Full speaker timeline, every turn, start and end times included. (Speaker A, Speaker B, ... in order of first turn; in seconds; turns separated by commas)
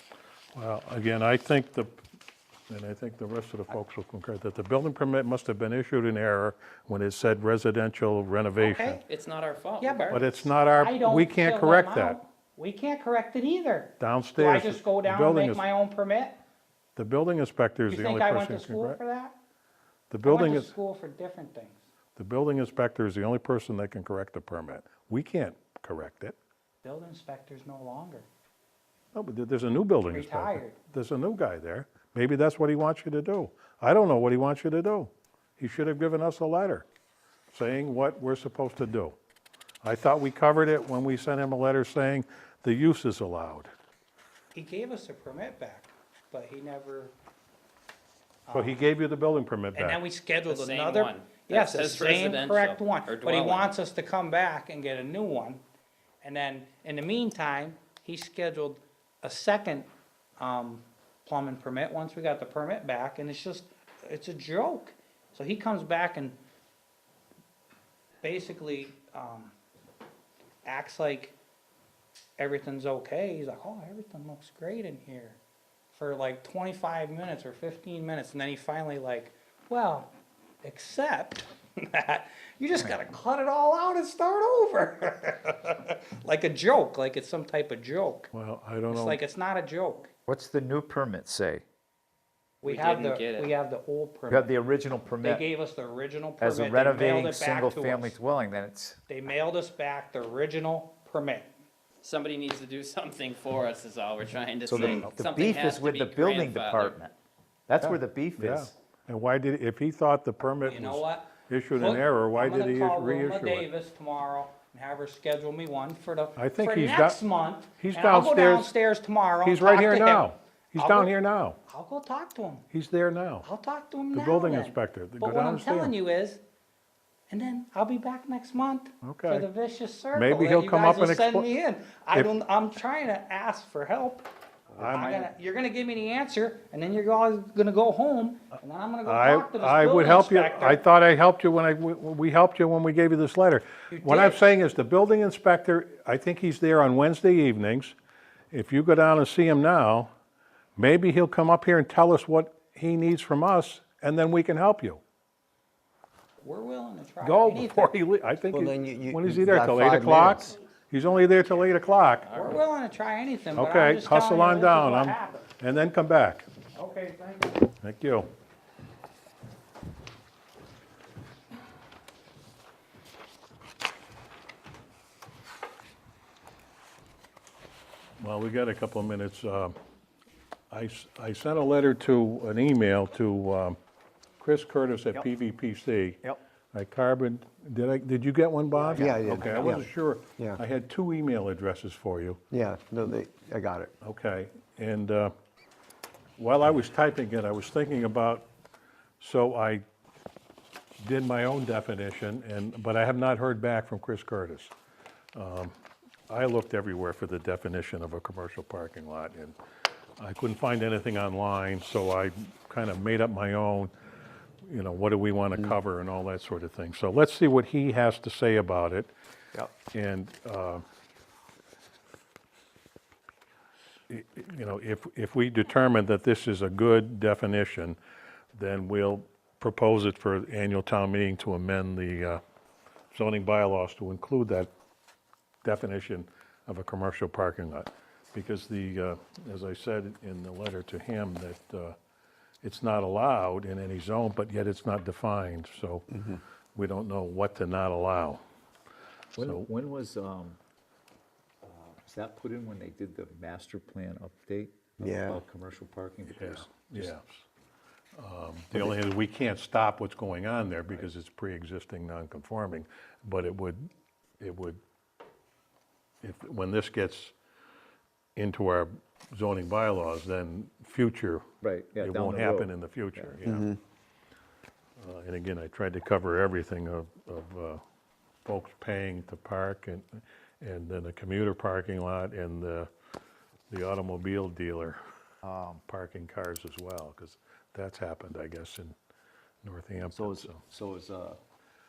Speaker A: 0.5-2.0, Speaker A: 2.7-9.0, Speaker B: 8.6-9.0, Speaker C: 9.1-10.2, Speaker B: 9.8-16.4, Speaker A: 10.1-12.2, Speaker A: 14.0-15.7, Speaker A: 16.9-19.0, Speaker B: 17.9-19.3, Speaker A: 20.1-20.7, Speaker B: 20.2-21.8, Speaker A: 22.1-26.3, Speaker B: 26.8-28.3, Speaker A: 29.1-36.9, Speaker B: 30.1-30.8, Speaker A: 37.5-39.1, Speaker A: 39.8-43.7, Speaker B: 44.5-47.1, Speaker B: 48.5-48.8, Speaker A: 48.5-50.0, Speaker B: 49.7-55.6, Speaker C: 50.5-53.7, Speaker B: 56.2-66.4, Speaker B: 68.2-69.5, Speaker B: 70.6-71.3, Speaker B: 72.4-75.4, Speaker B: 75.9-80.1, Speaker B: 80.6-88.3, Speaker A: 88.3-89.2, Speaker B: 88.9-90.1, Speaker D: 90.3-91.6, Speaker B: 92.6-94.5, Speaker C: 92.6-93.5, Speaker D: 94.3-95.4, Speaker B: 95.2-98.2, Speaker D: 96.4-99.0, Speaker B: 99.1-101.5, Speaker C: 102.0-106.9, Speaker D: 104.7-107.1, Speaker A: 104.9-105.1, Speaker D: 107.7-108.7, Speaker A: 107.8-113.7, Speaker B: 110.6-121.1, Speaker A: 116.4-117.2, Speaker A: 117.8-118.7, Speaker A: 119.4-121.6, Speaker B: 121.7-122.6, Speaker A: 122.7-123.5, Speaker B: 123.4-126.4, Speaker A: 124.1-125.9, Speaker B: 127.3-140.8, Speaker A: 129.0-129.5, Speaker A: 130.1-131.5, Speaker A: 134.8-135.3, Speaker A: 139.1-147.9, Speaker B: 143.9-144.4, Speaker A: 148.5-150.1, Speaker A: 150.8-155.0, Speaker B: 156.4-157.9, Speaker A: 157.2-162.3, Speaker E: 158.5-160.5, Speaker B: 162.3-165.5, Speaker A: 163.6-166.4, Speaker B: 166.7-167.6, Speaker A: 167.8-168.3, Speaker A: 178.2-179.7, Speaker A: 180.7-183.8, Speaker A: 184.4-186.2, Speaker A: 186.7-192.4, Speaker D: 188.7-189.8, Speaker E: 188.9-190.6, Speaker E: 192.5-193.9, Speaker A: 194.0-195.3, Speaker A: 196.4-198.4, Speaker A: 199.2-199.8, Speaker A: 201.0-204.7, Speaker A: 205.3-205.7, Speaker A: 206.3-209.5, Speaker A: 210.2-213.9, Speaker A: 214.6-219.1, Speaker A: 219.9-220.8, Speaker A: 224.1-228.0, Speaker A: 228.5-232.4, Speaker A: 233.1-234.7, Speaker A: 235.6-241.9, Speaker A: 242.6-246.2, Speaker E: 246.1-246.4, Speaker A: 246.7-248.4, Speaker D: 249.3-250.6, Speaker A: 249.4-249.7, Speaker D: 251.6-257.1, Speaker E: 255.0-255.4, Speaker A: 256.3-257.4, Speaker A: 258.2-263.9, Speaker A: 264.4-264.8, Speaker A: 266.2-267.3, Speaker A: 268.4-271.5, Speaker D: 271.6-273.4, Speaker A: 272.0-273.8, Speaker E: 273.4-273.7, Speaker A: 275.0-277.8, Speaker A: 278.4-282.9, Speaker A: 283.7-285.0, Speaker D: 285.4-285.8, Speaker A: 285.9-288.9, Speaker A: 289.6-290.6, Speaker D: 290.1-291.4